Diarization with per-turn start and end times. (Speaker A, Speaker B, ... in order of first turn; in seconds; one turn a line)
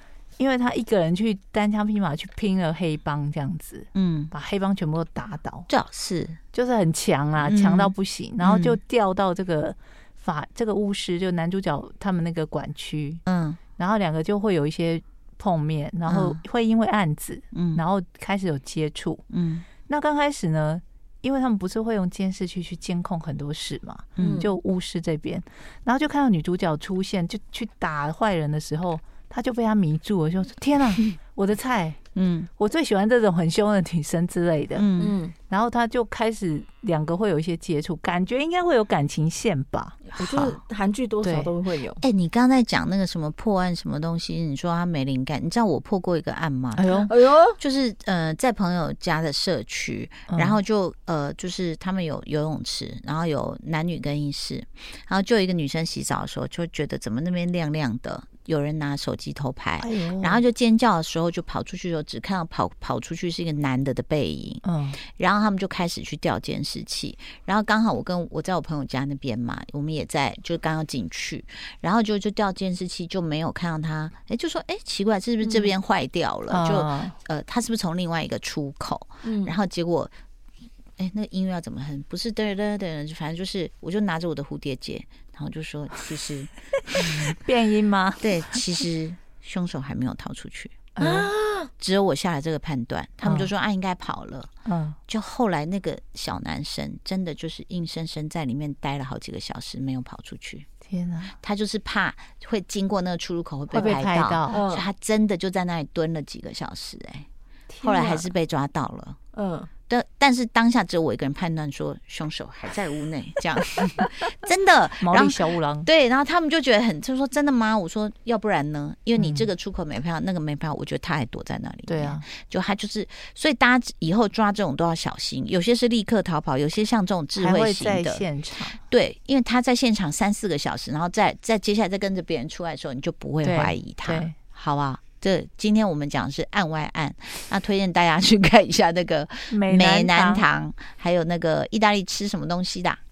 Speaker A: 0.4-5.7
Speaker B: 3.9-4.3
Speaker B: 5.7-6.4
Speaker A: 6.5-13.2
Speaker B: 7.4-8.8
Speaker B: 13.2-13.6
Speaker A: 13.8-19.2
Speaker B: 16.1-16.4
Speaker B: 17.5-17.8
Speaker B: 19.3-19.7
Speaker A: 19.8-32.0
Speaker B: 24.2-24.5
Speaker C: 24.2-24.5
Speaker B: 32.1-32.5
Speaker A: 32.6-34.9
Speaker B: 34.8-35.2
Speaker C: 35.0-35.3
Speaker A: 35.5-40.0
Speaker C: 40.1-42.0
Speaker B: 40.2-40.6
Speaker A: 41.2-41.5
Speaker B: 42.0-64.6
Speaker A: 46.7-47.1
Speaker C: 47.0-47.6
Speaker A: 50.3-50.6
Speaker A: 59.8-60.4
Speaker A: 64.6-65.0
Speaker B: 65.2-80.1
Speaker C: 75.4-75.7
Speaker A: 76.5-77.1
Speaker C: 79.2-79.5
Speaker B: 81.0-87.3
Speaker A: 86.9-88.6
Speaker B: 88.2-90.9
Speaker A: 91.0-91.3
Speaker C: 91.3-91.6
Speaker B: 91.8-94.5
Speaker A: 93.2-93.5
Speaker A: 94.7-95.0
Speaker B: 95.1-100.7
Speaker A: 100.8-101.3
Speaker B: 101.4-107.3
Speaker A: 103.7-104.6
Speaker C: 104.5-104.9
Speaker C: 107.7-108.3
Speaker B: 107.8-109.2
Speaker C: 109.3-109.7
Speaker B: 109.9-128.2
Speaker A: 115.0-115.9
Speaker A: 119.2-119.5
Speaker A: 121.9-122.2
Speaker A: 127.3-128.8
Speaker B: 128.9-143.0
Speaker A: 133.4-134.3
Speaker A: 139.5-140.4